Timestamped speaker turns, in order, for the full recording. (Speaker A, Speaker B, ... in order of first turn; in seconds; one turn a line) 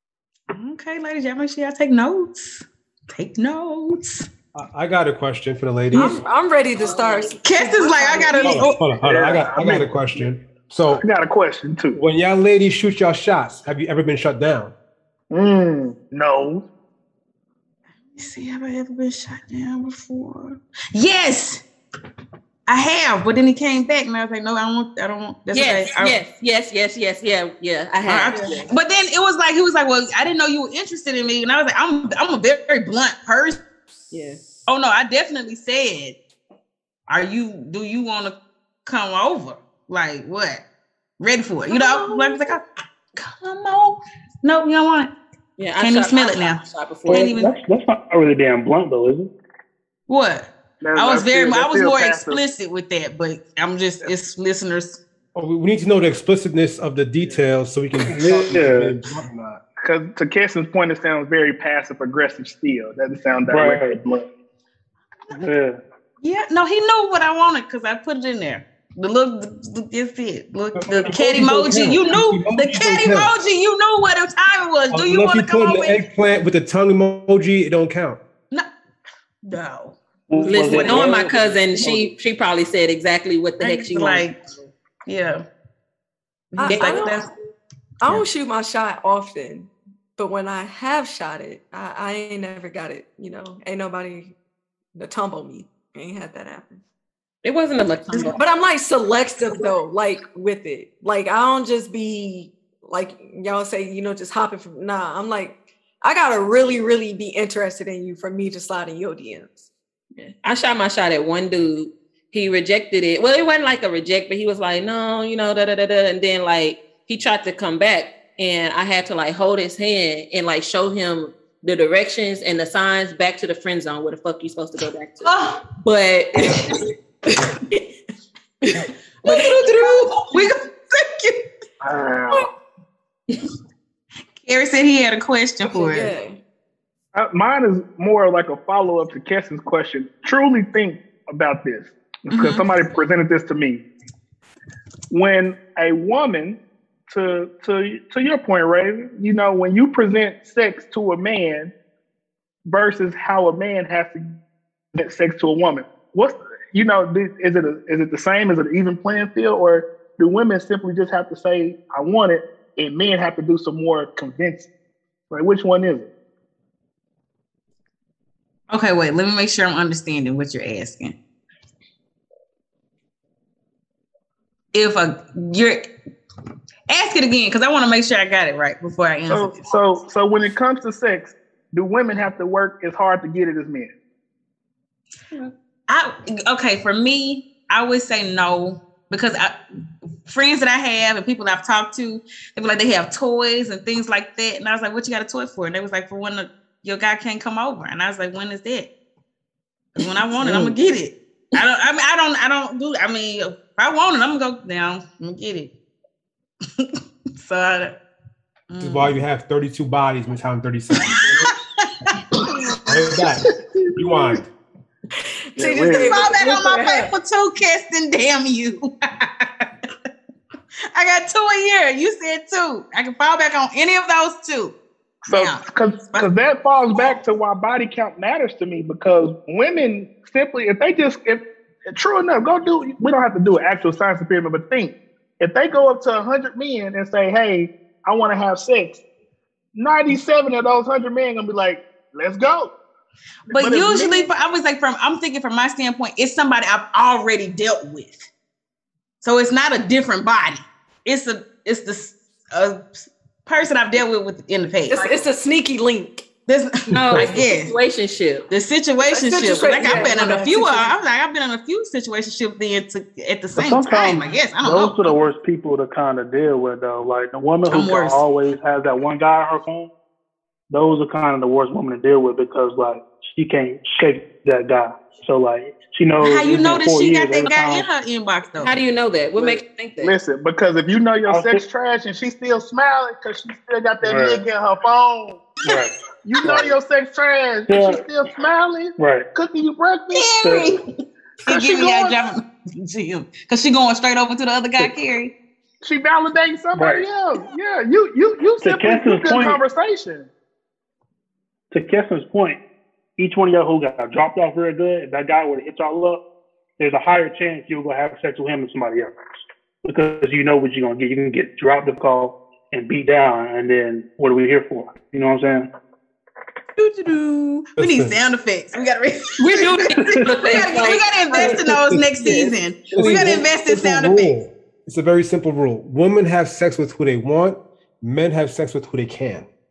Speaker A: 0.5-4.3
Speaker B: 4.5-6.2
Speaker C: 5.9-8.8
Speaker D: 6.8-7.4
Speaker A: 7.4-8.8
Speaker B: 8.4-11.0
Speaker E: 9.0-10.2
Speaker E: 10.9-12.0
Speaker B: 11.9-14.7
Speaker E: 15.3-16.7
Speaker A: 18.1-21.6
Speaker A: 22.7-26.2
Speaker D: 25.5-28.7
Speaker A: 28.1-33.6
Speaker D: 34.1-34.6
Speaker A: 34.7-36.2
Speaker A: 37.1-40.7
Speaker A: 41.2-42.6
Speaker D: 41.7-42.2
Speaker A: 43.1-45.1
Speaker D: 45.6-47.4
Speaker A: 45.8-47.5
Speaker F: 47.1-49.3
Speaker A: 50.1-55.0
Speaker E: 50.8-52.4
Speaker B: 55.4-59.6
Speaker F: 58.1-59.0
Speaker E: 59.8-64.3
Speaker F: 63.5-64.0
Speaker F: 65.3-65.8
Speaker A: 66.2-76.0
Speaker B: 70.8-73.3
Speaker B: 74.9-78.2
Speaker A: 79.4-81.3
Speaker F: 80.3-82.1
Speaker D: 80.4-84.7
Speaker A: 83.6-84.4
Speaker A: 85.1-85.5
Speaker A: 86.5-87.3
Speaker C: 86.6-87.2
Speaker D: 86.7-87.2
Speaker C: 88.0-94.3
Speaker C: 95.0-96.8
Speaker D: 97.4-98.4
Speaker C: 98.1-109.7
Speaker D: 110.2-126.7
Speaker A: 125.2-125.7
Speaker C: 128.8-130.4
Speaker A: 129.2-131.5
Speaker E: 131.8-132.5
Speaker A: 134.4-136.1
Speaker C: 135.7-136.4
Speaker E: 137.2-143.9
Speaker A: 142.3-142.7
Speaker E: 145.1-151.7
Speaker E: 152.7-154.4
Speaker E: 154.9-164.7
Speaker E: 165.3-166.1
Speaker A: 168.7-171.2
Speaker A: 174.7-175.9
Speaker A: 176.9-179.7
Speaker E: 179.3-183.9
Speaker A: 185.9-189.6
Speaker A: 190.3-198.9
Speaker A: 200.0-205.7
Speaker E: 200.4-200.7
Speaker A: 206.8-208.0
Speaker A: 208.7-209.2
Speaker B: 208.8-211.5
Speaker A: 211.1-212.2
Speaker B: 212.9-214.4
Speaker C: 215.5-217.1
Speaker E: 215.6-216.3
Speaker A: 216.0-219.9
Speaker A: 220.9-224.8
Speaker E: 225.3-239.0
Speaker A: 225.3-226.3
Speaker E: 239.8-242.7
Speaker E: 243.5-244.3
Speaker A: 243.5-248.2
Speaker A: 249.2-255.2
Speaker C: 254.9-256.2
Speaker A: 256.5-257.8
Speaker D: 256.9-258.5
Speaker A: 258.5-265.1
Speaker C: 259.0-261.0
Speaker F: 263.5-269.9
Speaker A: 267.7-268.2
Speaker F: 270.7-277.9
Speaker A: 276.2-278.8
Speaker D: 278.6-280.1
Speaker E: 279.4-285.7
Speaker F: 281.3-281.6
Speaker F: 284.0-284.4
Speaker F: 285.6-286.8
Speaker E: 286.2-290.6
Speaker F: 287.7-288.0
Speaker F: 289.0-289.3
Speaker A: 290.1-290.9
Speaker F: 290.4-290.7
Speaker E: 291.5-292.2
Speaker A: 291.5-295.3
Speaker E: 295.8-300.3
Speaker F: 296.8-297.1
Speaker F: 298.6-299.6
Speaker F: 301.7-302.6
Speaker F: 303.2-306.2
Speaker F: 306.8-309.1
Speaker F: 309.8-315.7
Speaker A: 316.8-324.4
Speaker B: 317.8-318.2
Speaker D: 319.4-321.7
Speaker B: 321.5-329.5